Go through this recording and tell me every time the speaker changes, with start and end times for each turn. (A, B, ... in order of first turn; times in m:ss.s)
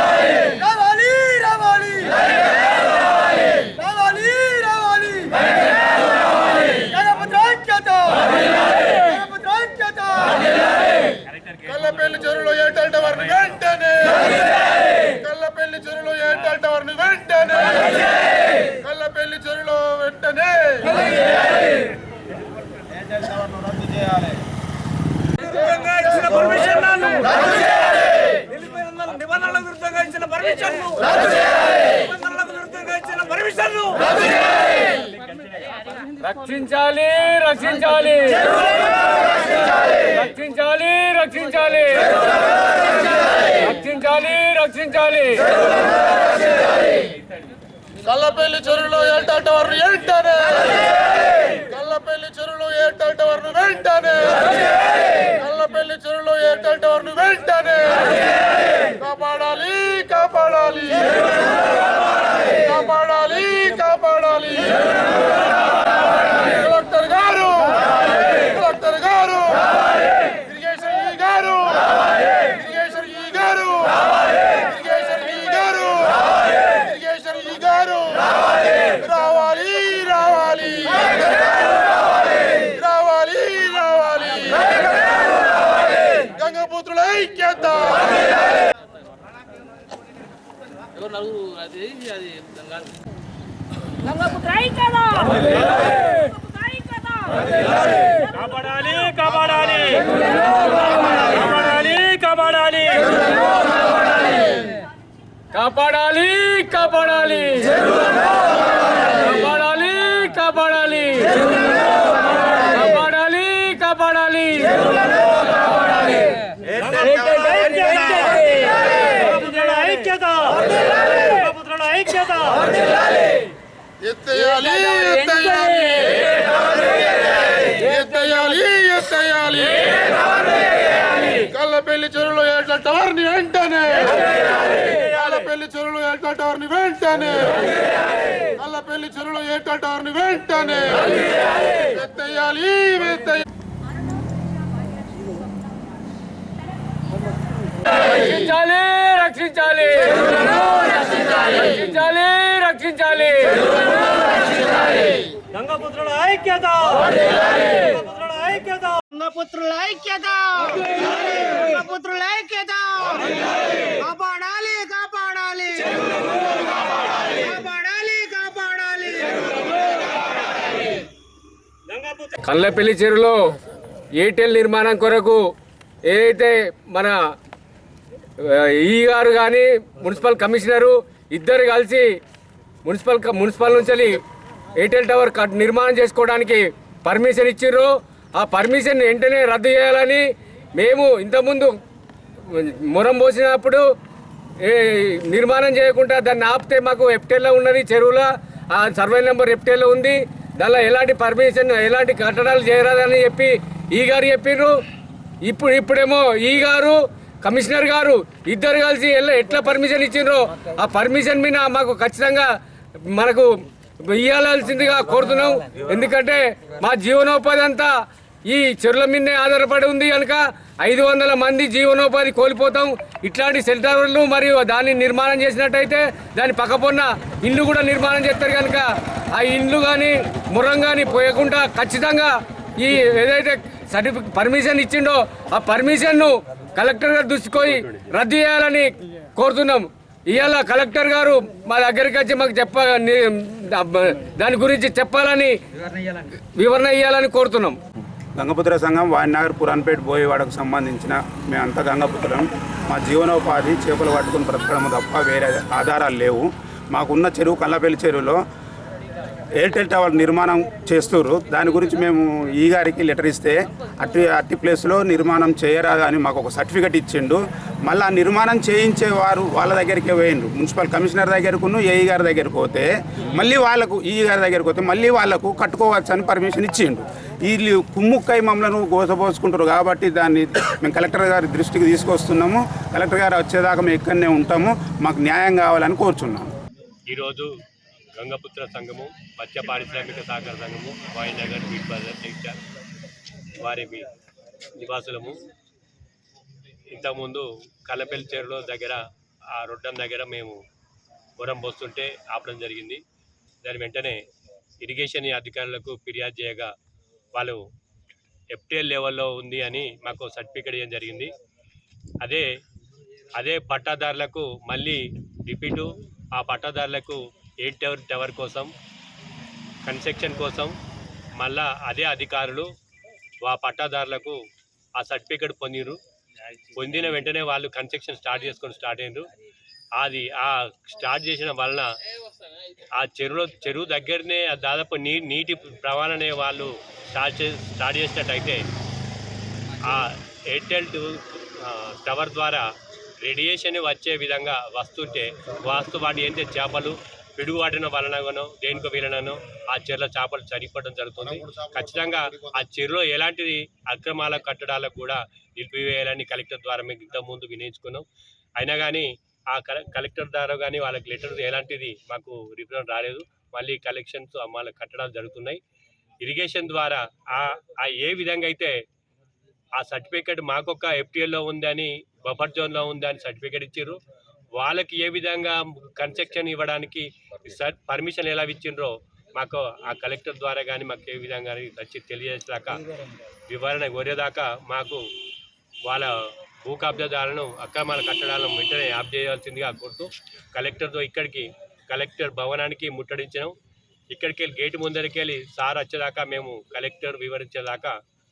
0:01.7-0:02.0 A
0:03.9-0:04.4 A
0:09.4-0:10.1 A
0:11.6-0:14.4 B
0:15.0-0:18.0 B
0:18.7-0:21.0 B
0:25.6-0:27.5 C
0:28.7-0:31.2 C
0:31.9-0:34.1 C
0:36.2-0:42.3 C
0:43.3-0:45.6 C
0:48.0-0:50.8 B
0:51.5-0:54.5 B
0:55.2-0:58.2 B
0:59.0-1:01.3 B
1:02.5-1:04.8 B
1:06.4-1:07.9 B
1:08.4-1:18.3 B
1:18.9-1:21.2 B
1:22.6-1:24.9 B
1:26.2-1:28.2 B
1:31.2-1:32.6 D
1:34.5-1:35.2 C
1:36.8-1:37.2 C
1:38.4-1:38.7 E
1:38.6-1:39.8 D
1:39.8-1:42.1 C
1:42.0-1:43.0 D
1:42.8-1:43.3 C
1:45.5-1:48.1 C
1:49.0-1:55.1 C
1:57.0-2:00.4 C
1:59.4-2:00.6 D
2:01.3-2:02.6 D
2:04.0-2:06.1 B
2:04.4-2:06.4 C
2:07.8-2:09.9 B
2:11.4-2:17.6 B
2:18.6-2:21.1 B
2:21.9-2:23.4 B
2:28.0-2:33.9 C
2:35.6-2:37.1 D
2:37.7-2:38.0 C
2:37.8-2:39.0 D
2:39.0-2:46.5 A
2:47.1-2:49.5 A
2:52.2-2:53.6 C
2:54.2-2:55.5 C
2:56.0-2:57.3 C
2:58.4-3:02.2 C
3:02.8-3:04.2 C
3:04.8-3:11.7 C
3:12.4-3:13.8 C
3:14.6-3:24.8 C
3:25.4-4:05.6 C
4:06.2-4:07.8 C
4:08.4-4:18.4 F
4:19.6-4:46.5 F
4:47.1-4:47.5 E
4:48.2-4:52.6 E
4:53.6-4:54.1 E
4:54.8-4:55.4 E
4:56.9-4:59.0 E
4:59.5-5:00.6 E
5:01.4-5:03.0 E
5:03.6-5:04.2 E
5:04.8-5:06.7 E
5:07.4-5:07.6 E
5:08.5-5:11.3 E
5:13.3-5:18.7 E
5:19.8-5:20.8 E
5:21.4-5:22.7 E
5:23.4-5:24.4 E
5:25.0-5:26.0 E
5:26.7-5:29.3 E
5:30.0-5:31.9 E
5:32.9-5:38.6 E
5:39.8-5:42.7 E
5:43.2-5:58.1 E
5:58.6-6:05.6 E
6:06.2-6:08.8 E
6:09.8-6:14.0 E
6:14.6-6:22.9 E
6:23.5-6:25.1 E
6:25.8-6:33.6 E
6:34.1-6:37.9 E